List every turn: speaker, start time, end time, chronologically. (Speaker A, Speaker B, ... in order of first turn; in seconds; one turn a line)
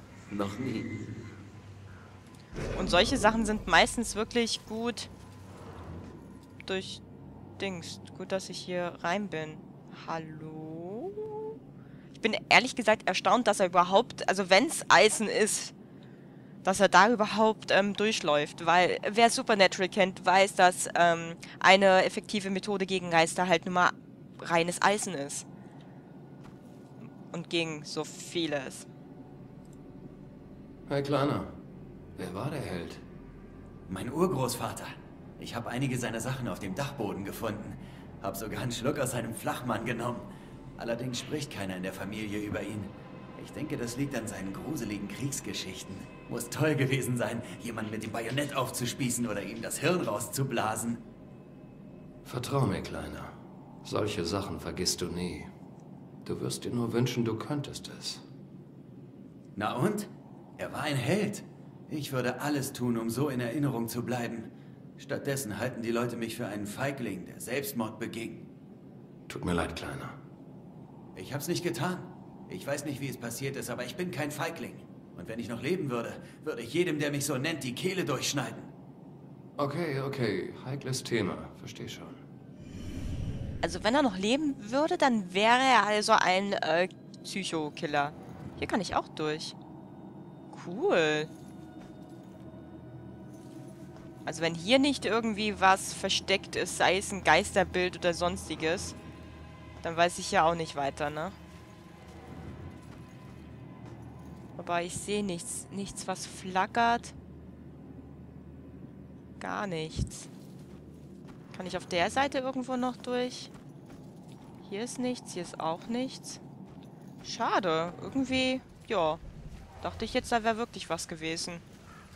Speaker A: 2.8-5.1
Speaker A: 6.7-7.0
Speaker A: 7.6-11.5
Speaker A: 12.2-15.7
Speaker A: 16.6-25.5
Speaker A: 27.3-28.9
Speaker B: 30.9-31.6
Speaker B: 32.2-33.0
Speaker C: 33.9-51.0
Speaker B: 52.2-55.5
Speaker B: 56.2-58.2
Speaker C: 59.6-68.5
Speaker B: 69.3-70.2
Speaker C: 71.2-78.7
Speaker B: 79.6-82.2
Speaker A: 83.6-89.6
Speaker A: 90.5-91.3
Speaker A: 94.2-99.0
Speaker A: 99.8-101.4
Speaker A: 104.6-107.2
Speaker A: 109.4-110.3
Speaker A: 111.5-113.5
Speaker A: 114.6-116.4
Speaker A: 117.2-119.2
Speaker A: 119.8-121.6